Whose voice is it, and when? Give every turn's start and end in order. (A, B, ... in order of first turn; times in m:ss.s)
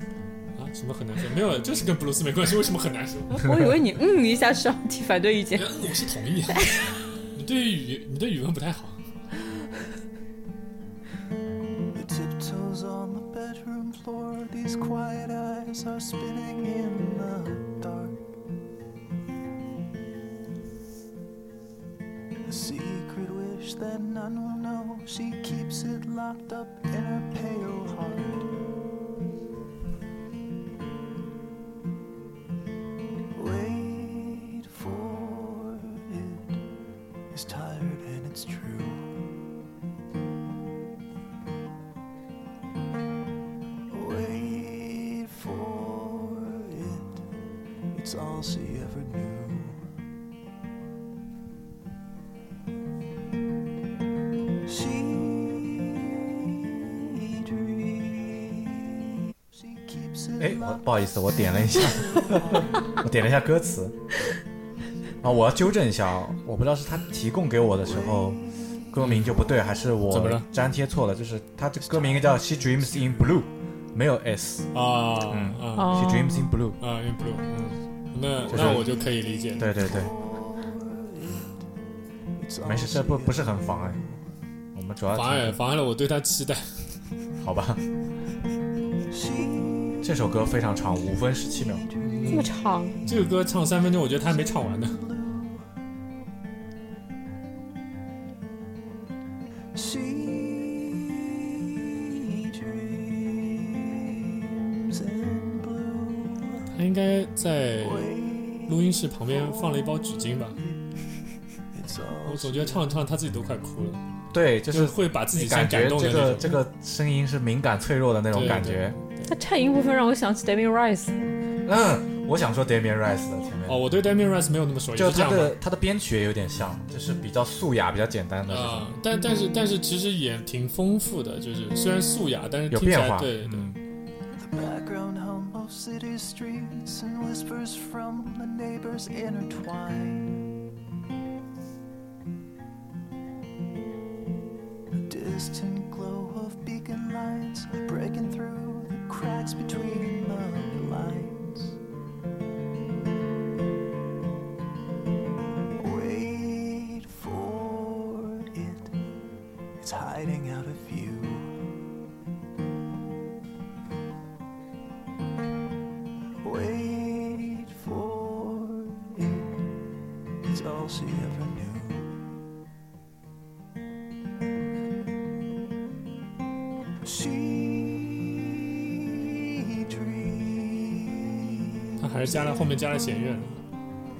0:00.6-0:03.5 A
0:03.3-0:05.7 B
0:05.5-0:06.7 A
0:07.3-0:09.0 A
0:11.9-0:18.2 C
0:22.4-0:28.5 C
0:33.3-0:36.6 C
0:37.3-0:39.1 C
0:43.9-0:47.3 C
0:47.9-0:49.8 C
0:54.6-1:00.8 C
1:00.4-1:04.0 D
1:01.8-1:02.8 C
1:05.2-1:08.4 D
1:08.9-1:14.7 D
1:09.0-1:09.3 A
1:10.1-1:10.4 A
1:13.0-1:13.3 C
1:14.7-1:16.2 A
1:15.2-1:16.8 D
1:15.8-1:16.5 B
1:16.8-1:19.7 A
1:18.4-1:21.7 C
1:18.5-1:18.9 D
1:19.6-1:20.1 D
1:22.4-1:24.2 C
1:22.6-1:24.0 D
1:24.7-1:25.6 D
1:25.1-1:26.7 A
1:27.4-1:27.8 D
1:29.1-1:30.1 C
1:30.0-1:31.8 D
1:31.7-1:32.4 C
1:32.0-1:32.5 A
1:32.3-1:33.0 B
1:33.0-1:33.3 D
1:33.0-1:35.0 A
1:34.7-1:35.7 C
1:39.7-1:46.7 C
1:46.7-1:48.1 A
1:47.8-1:50.0 C
1:48.6-1:50.6 A
1:50.6-1:50.8 C
1:51.7-1:52.9 C
1:52.2-1:54.0 A
1:54.3-1:59.0 D
1:54.7-1:56.5 A
1:58.3-1:59.3 A
1:59.2-2:01.2 B
2:01.6-2:03.8 D
2:03.7-2:05.6 A
2:04.9-2:08.9 D
2:08.5-2:13.7 A
2:12.7-2:13.8 D
2:14.3-2:20.4 C
2:25.0-2:31.8 C
2:35.7-2:39.0 C
2:39.8-2:41.6 C
2:46.4-2:49.7 C
2:50.4-2:52.2 C
2:57.0-3:02.0 C
3:02.0-3:03.6 A